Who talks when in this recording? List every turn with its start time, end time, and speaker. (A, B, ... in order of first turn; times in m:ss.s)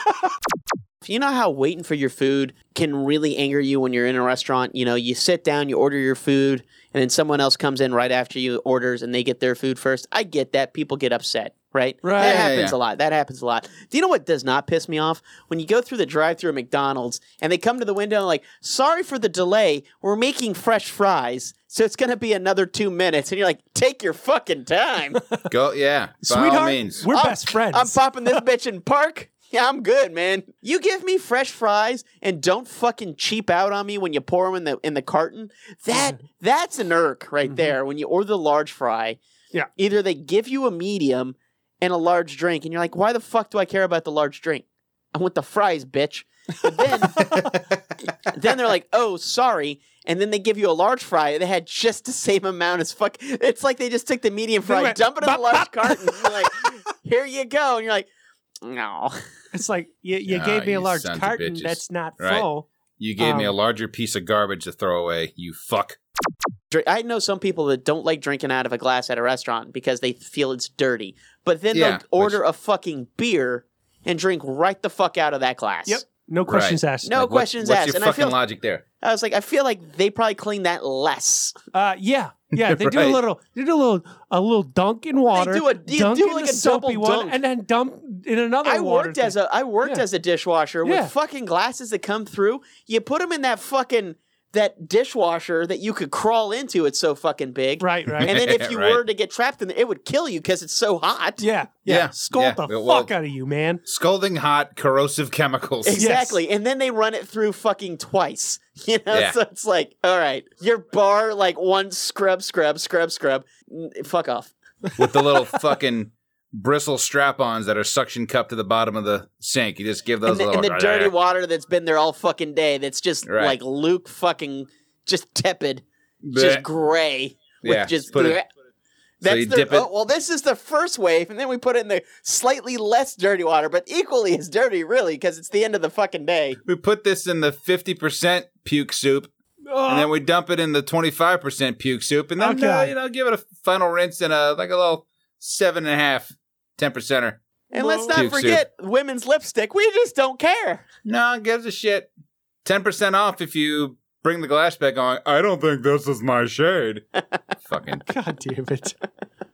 0:01.0-0:25.2 A
0:12.0-0:12.5 B
0:12.2-0:12.8 C
0:25.5-0:27.0 C
0:26.2-0:28.4 B
0:27.1-0:39.2 A
0:39.8-0:47.4 A
0:46.8-0:47.4 B
0:47.2-0:47.5 C
0:48.2-0:58.1 A
0:54.6-0:56.8 B
0:58.6-0:59.2 A
0:59.5-1:02.7 B
1:00.3-1:02.5 C
1:03.0-1:06.0 C
1:03.2-1:03.5 B
1:06.7-1:16.0 A
1:11.7-1:12.4 C
1:15.9-1:17.4 B
1:16.4-1:16.8 C
1:17.0-1:18.4 A
1:17.4-1:18.8 C
1:19.0-1:21.6 A
1:21.7-1:30.0 B
1:22.6-1:23.2 C
1:25.3-1:27.4 A
1:28.6-1:41.4 A
1:30.8-1:31.1 B
1:37.8-1:38.3 B
1:38.2-1:39.0 C
1:41.4-1:43.8 B
1:41.9-1:43.1 C
1:43.8-1:46.0 C
1:45.8-1:54.5 A
1:46.0-1:46.4 B
1:49.1-1:49.4 C
1:55.0-2:01.1 C
2:00.2-2:05.8 A
2:03.2-2:03.6 C
2:06.2-2:06.6 C
2:06.3-2:08.4 A
2:07.6-2:08.4 C
2:09.2-2:16.6 A
2:09.2-2:09.9 C
2:16.6-2:19.3 C
2:19.7-2:20.1 B
2:19.8-2:27.4 C
2:22.4-2:22.9 B
2:27.7-2:30.8 A
2:27.7-2:28.2 B
2:28.1-2:28.6 C
2:31.0-2:32.1 C
2:32.6-2:37.0 C
2:37.7-2:38.0 C
2:37.9-2:39.0 B